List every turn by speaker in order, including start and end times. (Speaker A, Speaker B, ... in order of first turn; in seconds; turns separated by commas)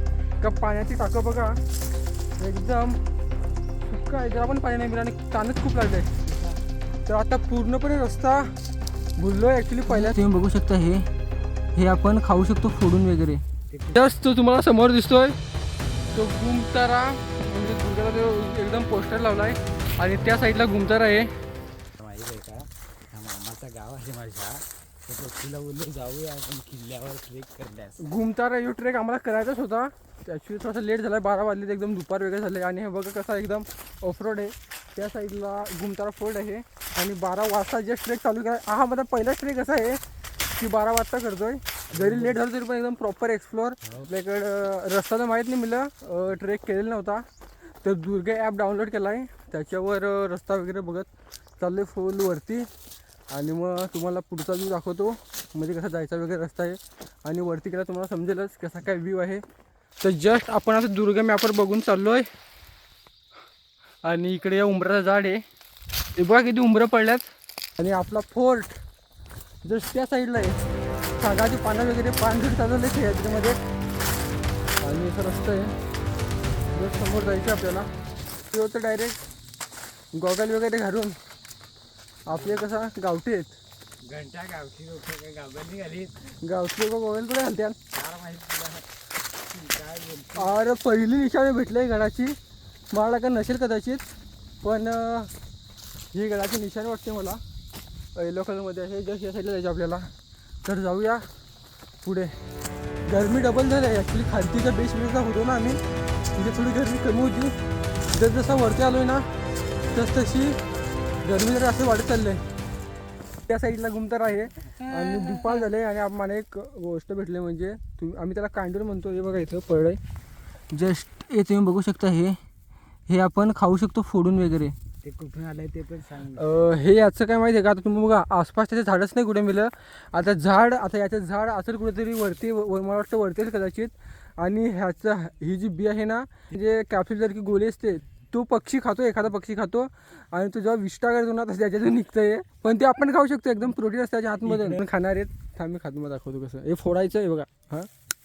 Speaker A: 0.4-1.6, Speaker A: 2.4-3.0, Speaker A: 3.8-6.2, Speaker B: 6.2-6.6, Speaker A: 7.0-8.5, Speaker A: 9.2-11.1, Speaker A: 11.7-13.4, Speaker B: 13.7-14.0, Speaker A: 13.9-15.4, Speaker A: 16.1-21.3, Speaker B: 22.0-28.0, Speaker A: 28.0-40.0, Speaker A: 40.5-47.2, Speaker B: 41.9-42.4, Speaker B: 43.8-44.1, Speaker A: 47.8-52.7, Speaker A: 53.3-59.4, Speaker A: 60.0-62.3, Speaker A: 64.0-65.4, Speaker A: 66.2-67.3, Speaker A: 67.8-68.8, Speaker A: 69.6-70.6, Speaker A: 71.2-73.6, Speaker A: 74.8-75.7, Speaker A: 76.7-77.9, Speaker A: 78.5-79.2, Speaker A: 80.1-81.2, Speaker A: 82.3-83.6, Speaker B: 82.3-82.7, Speaker B: 84.0-86.2, Speaker A: 86.4-87.8, Speaker B: 87.9-88.9, Speaker B: 89.4-90.6, Speaker A: 90.3-92.3, Speaker A: 92.9-94.0, Speaker A: 94.6-95.3, Speaker A: 96.1-97.4, Speaker A: 98.2-100.1, Speaker A: 100.6-101.3, Speaker A: 102.0-102.4, Speaker A: 103.1-105.8, Speaker A: 106.3-107.5, Speaker A: 108.1-109.2, Speaker A: 109.9-110.6, Speaker A: 111.2-112.4, Speaker A: 113.5-120.0, Speaker A: 120.7-122.4, Speaker A: 123.1-124.7, Speaker B: 125.0-126.7, Speaker A: 126.3-147.9, Speaker B: 144.4-144.8